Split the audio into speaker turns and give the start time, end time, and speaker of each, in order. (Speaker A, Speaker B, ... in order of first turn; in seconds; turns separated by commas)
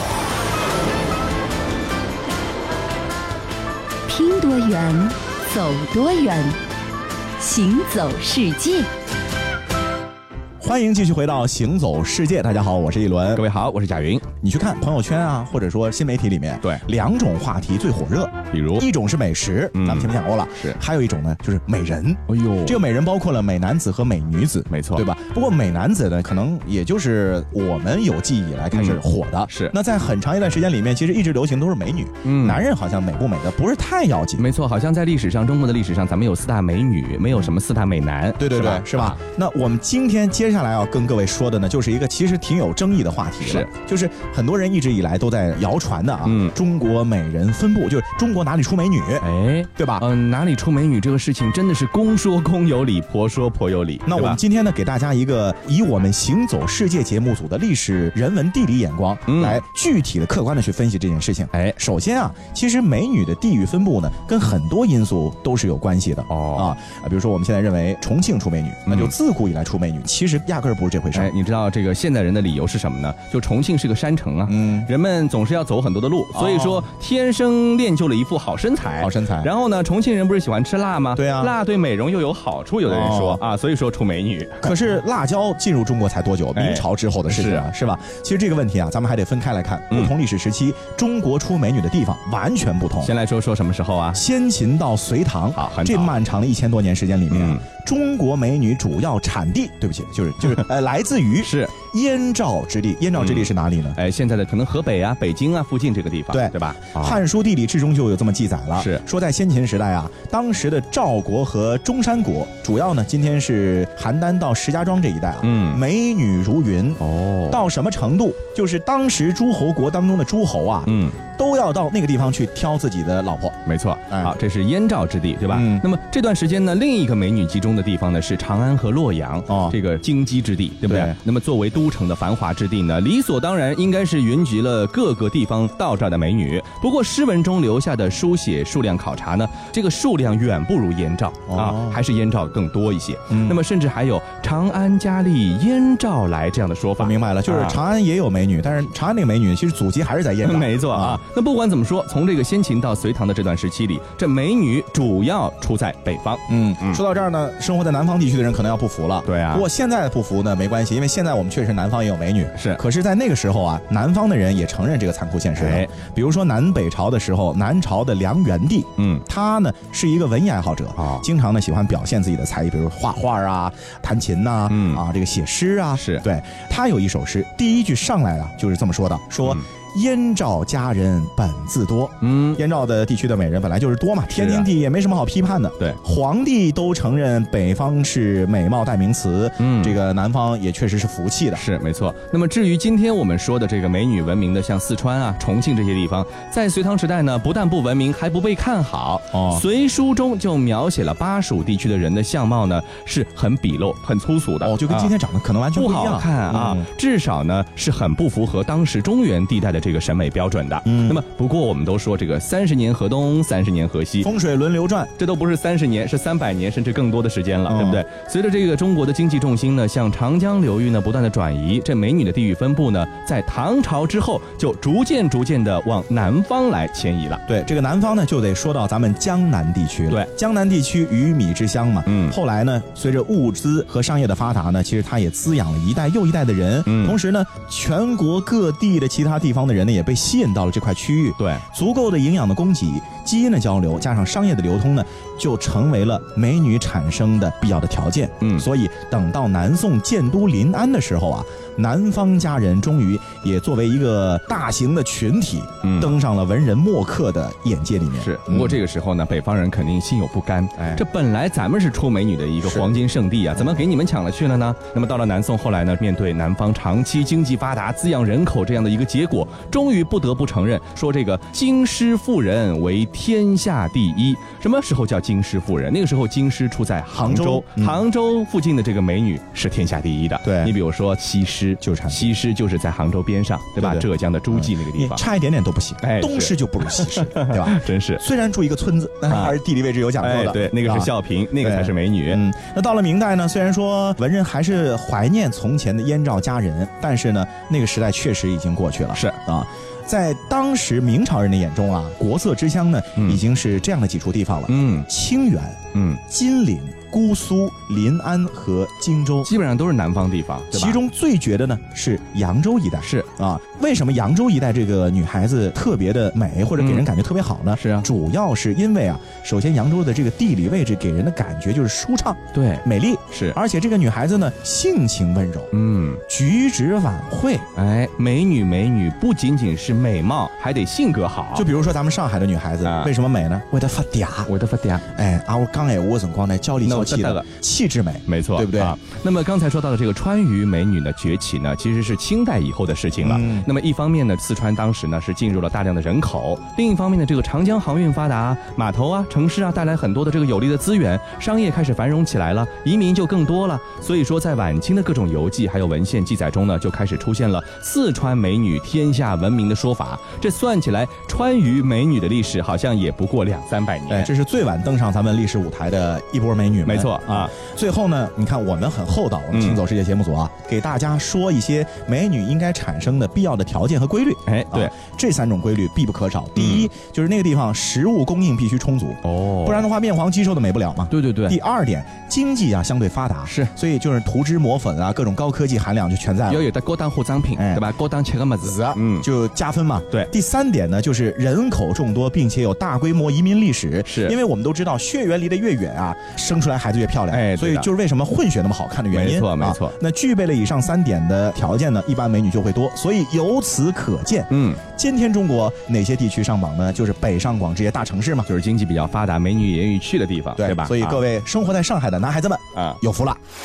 Speaker A: 4.1-6.6, Speaker A: 7.4-8.9, Speaker B: 10.6-13.4, Speaker C: 13.3-14.2, Speaker B: 14.4-34.5, Speaker C: 18.5-18.9, Speaker C: 19.7-20.8, Speaker C: 22.3-22.8, Speaker C: 24.7-25.1, Speaker C: 28.7-29.7, Speaker C: 32.2-32.6, Speaker C: 34.4-39.2, Speaker B: 38.4-49.2, Speaker C: 43.4-43.7, Speaker C: 46.2-46.5, Speaker C: 49.2-54.4, Speaker B: 49.8-50.0, Speaker B: 54.0-71.3, Speaker C: 59.3-59.6, Speaker C: 66.3-66.7, Speaker C: 68.9-69.1, Speaker C: 71.1-84.7, Speaker B: 74.5-74.9, Speaker B: 76.3-76.8, Speaker B: 79.0-79.5, Speaker B: 81.2-81.5, Speaker B: 82.8-83.4, Speaker B: 84.6-93.1, Speaker C: 86.5-87.7, Speaker C: 93.0-94.2, Speaker B: 94.1-104.0, Speaker C: 95.5-96.1, Speaker C: 97.3-97.6, Speaker C: 101.4-101.7, Speaker C: 103.2-107.2, Speaker B: 106.3-123.6, Speaker C: 108.8-109.0, Speaker C: 115.4-115.8, Speaker C: 117.0-117.6, Speaker C: 120.8-121.2, Speaker C: 123.7-147.8, Speaker B: 125.5-125.8, Speaker B: 129.5-129.8, Speaker B: 130.9-131.2, Speaker B: 141.5-142.0, Speaker B: 143.3-143.6, Speaker B: 147.0-151.2, Speaker C: 150.4-157.0, Speaker B: 156.5-191.6, Speaker C: 159.2-159.7, Speaker C: 162.5-162.8, Speaker C: 165.6-165.9, Speaker C: 169.0-169.2, Speaker C: 170.9-171.2, Speaker C: 174.7-175.0, Speaker C: 176.0-176.2, Speaker C: 182.2-182.6, Speaker C: 184.3-184.7, Speaker C: 189.6-190.0, Speaker C: 191.5-205.1, Speaker B: 199.3-199.6, Speaker B: 204.6-206.8, Speaker C: 205.7-214.3, Speaker B: 210.8-211.2, Speaker B: 214.2-215.1, Speaker C: 215.2-227.4, Speaker B: 217.7-218.0, Speaker B: 227.5-258.8, Speaker C: 232.1-232.3, Speaker C: 236.8-237.2, Speaker C: 241.4-241.6, Speaker C: 248.4-248.7, Speaker C: 255.8-256.1, Speaker C: 258.2-285.2, Speaker B: 260.8-261.0, Speaker B: 262.6-263.0, Speaker B: 263.5-263.8, Speaker B: 277.1-278.0, Speaker B: 280.4-280.7, Speaker B: 281.8-282.3, Speaker B: 283.8-309.5, Speaker C: 286.0-288.2, Speaker C: 289.3-289.6, Speaker C: 290.2-292.4, Speaker C: 299.1-299.4, Speaker C: 303.1-303.4, Speaker C: 304.7-305.1, Speaker C: 305.9-306.2, Speaker C: 309.4-311.0, Speaker B: 310.7-325.7, Speaker C: 316.8-317.1, Speaker C: 317.8-318.1, Speaker C: 322.5-323.6, Speaker C: 325.7-326.2, Speaker B: 326.3-327.7, Speaker C: 327.7-331.7, Speaker B: 331.5-334.5, Speaker C: 332.8-333.1, Speaker C: 334.5-335.0, Speaker B: 335.1-339.0, Speaker C: 336.8-337.5, Speaker C: 338.2-364.3, Speaker B: 343.2-343.7, Speaker B: 364.1-386.6, Speaker C: 366.9-367.5, Speaker C: 369.5-369.8, Speaker C: 374.4-374.9, Speaker C: 376.6-376.9, Speaker C: 379.2-379.9, Speaker C: 381.1-381.6, Speaker C: 383.4-383.7, Speaker C: 386.5-389.3, Speaker B: 387.6-387.8, Speaker B: 388.6-408.5, Speaker C: 394.0-394.4, Speaker C: 397.3-397.9, Speaker C: 399.1-400.0, Speaker C: 404.5-404.8, Speaker C: 408.4-411.2, Speaker B: 410.6-413.4, Speaker C: 412.7-413.0